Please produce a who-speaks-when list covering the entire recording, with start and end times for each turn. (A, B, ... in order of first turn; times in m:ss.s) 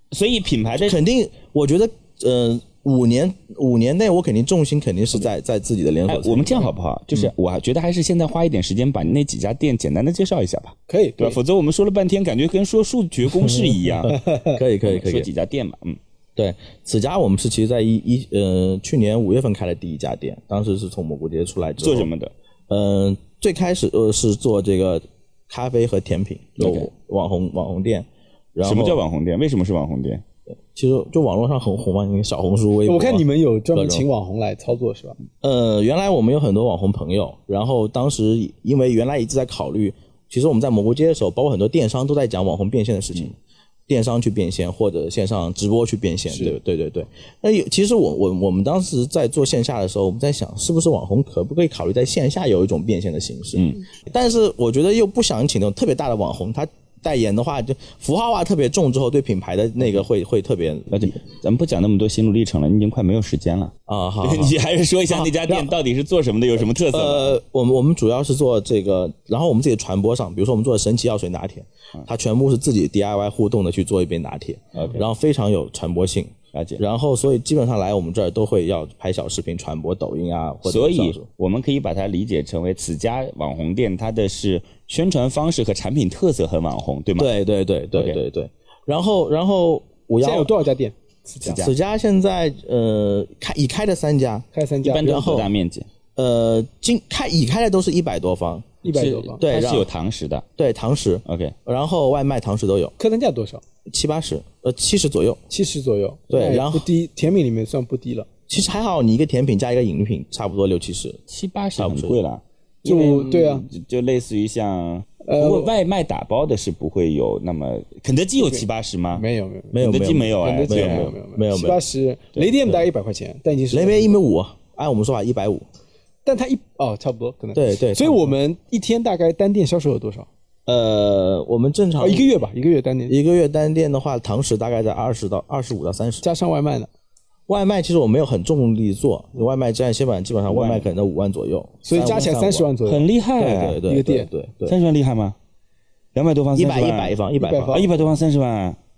0:00.1-0:01.0 A
0:00.8-0:07.3 B
0:06.1-0:14.2 A
0:10.9-0:11.4 C
0:14.1-0:15.3 B
0:14.2-0:14.6 C
0:14.8-0:16.0 A
0:16.4-0:22.1 B
0:21.8-0:22.3 A
0:22.7-0:29.0 B
0:26.6-0:26.9 A
0:28.6-0:30.2 A
0:30.7-0:34.1 B
0:32.9-0:35.2 C
0:35.4-0:43.4 B
0:43.9-1:01.2 B
1:00.9-1:07.4 A
1:03.9-1:04.6 B
1:05.1-1:05.7 B
1:06.9-1:21.3 B
1:14.8-1:15.0 A
1:16.5-1:16.8 A
1:20.7-1:27.3 A
1:27.2-1:30.5 B
1:30.2-1:31.6 C
1:31.4-1:31.7 A
1:31.5-1:34.5 B
1:34.5-1:35.2 C
1:34.8-1:35.9 A
1:35.0-1:35.5 B
1:36.2-1:38.8 B
1:38.8-1:39.4 C
1:38.9-1:40.4 A
1:39.4-1:39.9 B
1:40.6-1:43.0 B
1:41.3-1:41.6 A
1:43.0-1:43.6 C
1:43.9-1:45.4 B
1:45.5-1:48.3 C
1:46.3-1:46.9 B
1:48.5-1:51.2 B
1:51.3-1:59.2 A
1:51.8-1:52.2 B
1:52.8-1:53.7 C
1:55.3-1:55.7 C
1:58.4-1:58.6 C
1:59.2-1:59.8 C
1:59.7-2:01.8 B
1:59.8-2:01.1 A
2:00.4-2:04.1 C
2:03.7-2:05.7 B
2:06.2-2:10.3 C
2:07.5-2:08.4 B
2:10.7-2:12.3 B
2:12.0-2:13.2 C
2:13.1-2:16.3 B
2:16.2-2:16.9 C
2:17.5-2:22.7 B
2:20.5-2:20.9 A
2:21.8-2:23.1 C
2:22.8-2:23.8 A
2:23.4-2:24.8 B
2:23.9-2:24.3 C
2:24.7-2:25.4 A
2:26.2-2:27.2 A
2:26.6-2:27.9 B
2:27.4-2:27.9 C
2:27.7-2:28.8 A